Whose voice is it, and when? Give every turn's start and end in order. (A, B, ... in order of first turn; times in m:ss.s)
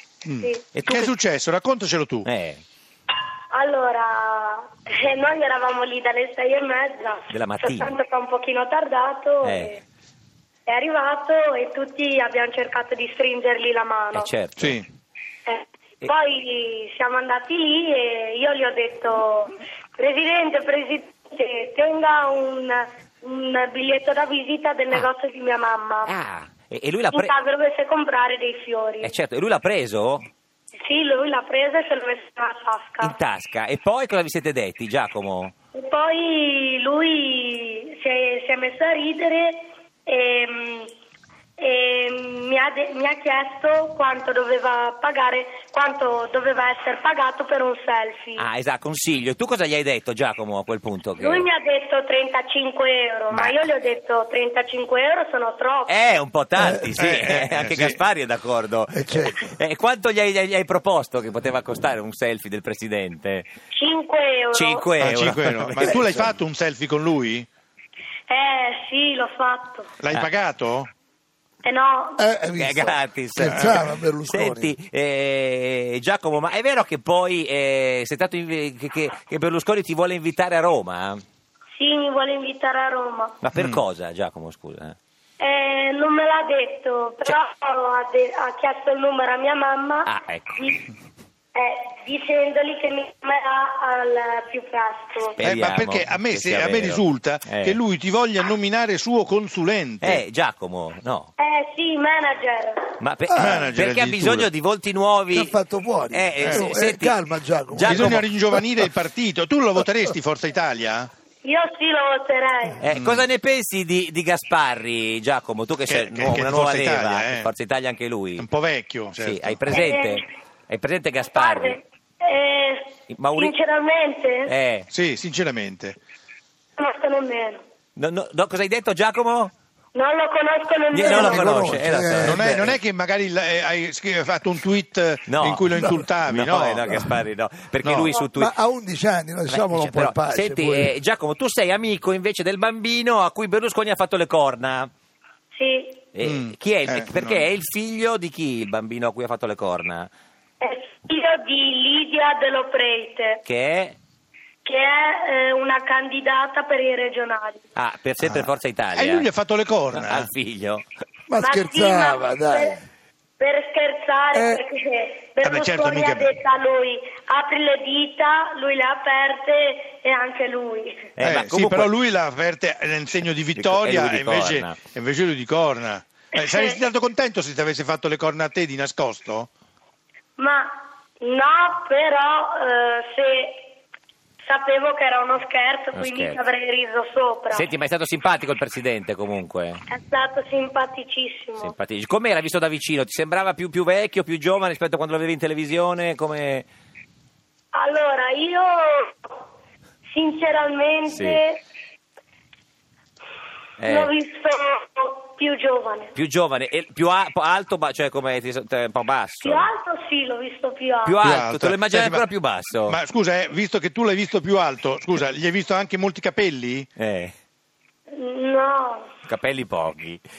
0:00.2-0:02.3 A
0:00.7-0:01.1 B
0:02.2-0:02.6 B
0:03.5-0:09.8 C
0:07.3-0:07.9 B
0:09.4-0:09.8 B
0:10.7-0:14.3 C
0:14.1-0:14.8 B
0:14.6-0:14.9 A
0:15.5-0:26.1 C
0:26.1-0:27.3 B
0:27.1-0:29.1 C
0:29.0-0:30.3 B
0:30.8-0:33.2 C
0:33.0-0:35.5 B
0:35.7-0:40.9 C
0:41.6-0:48.5 C
0:48.4-0:51.5 B
0:51.2-0:55.9 C
0:55.9-1:03.5 B
0:57.0-0:58.0 A
0:58.9-0:59.4 D
1:03.7-1:04.9 C
1:04.5-1:06.2 B
1:05.0-1:07.5 A
1:08.3-1:09.9 C
1:10.0-1:10.9 A
1:11.6-1:12.2 C
1:12.2-1:14.8 D
1:12.6-1:21.2 B
1:13.5-1:13.8 A
1:21.8-1:23.4 C
1:23.4-1:25.0 B
1:23.6-1:23.8 A
1:25.4-1:30.8 C
1:30.1-1:30.8 B
1:31.6-1:35.4 C
1:35.4-1:37.8 B
1:35.4-1:40.2 A
1:40.0-1:41.3 B
1:41.4-1:42.8 C
1:43.0-1:45.6 B
1:43.3-1:43.6 D
1:43.3-1:44.5 A
1:45.3-1:48.6 D
1:46.1-1:47.2 B
1:47.7-1:48.2 B
1:47.8-1:51.1 A
1:51.4-1:52.8 C
1:52.8-1:58.5 B
1:52.9-1:53.2 A
1:55.9-1:57.5 A
1:58.4-1:59.6 A
1:59.2-2:01.8 B
1:59.7-2:00.2 C
2:01.3-2:04.5 C
2:03.1-2:03.6 B
2:04.5-2:04.9 B
2:04.9-2:06.0 A
2:06.8-2:07.6 C
2:08.0-2:09.5 B
2:09.9-2:11.7 C
2:10.9-2:12.8 B
2:11.0-2:12.6 D
2:12.2-2:17.1 A
2:15.3-2:15.7 B
2:15.7-2:16.0 D
2:16.2-2:18.5 B
2:17.8-2:18.1 A
2:18.3-2:20.9 D
2:19.5-2:24.9 B
2:25.6-2:26.0 C
2:26.1-2:30.1 B
2:26.2-2:27.5 A
2:30.6-2:33.4 C
2:33.4-2:34.0 B
2:34.6-2:37.6 C
2:37.8-2:39.3 B
2:38.2-2:40.3 A
2:39.9-2:40.8 B
2:41.3-2:42.8 D
2:41.4-2:42.8 C
2:43.4-2:51.1 C
2:44.4-2:44.6 D
2:45.4-2:46.4 A
2:51.2-2:51.9 B
2:51.2-2:59.5 A
2:53.6-2:54.8 B
2:56.4-2:56.8 C
3:00.4-3:03.6 C
3:04.4-3:07.7 C
3:06.0-3:06.4 B
3:07.5-3:09.8 B
3:09.9-3:11.7 C
3:11.6-3:16.7 B
3:17.7-3:19.3 C
3:20.1-3:21.6 C
3:21.1-3:21.4 B
3:23.8-3:24.1 B
3:23.8-3:26.1 C
3:26.2-3:29.7 B
3:29.4-3:31.2 C
3:31.0-3:33.0 B
3:31.2-3:32.3 A
3:32.9-3:36.9 A
3:37.0-3:37.3 B
3:38.1-3:39.1 C
3:39.3-3:40.2 B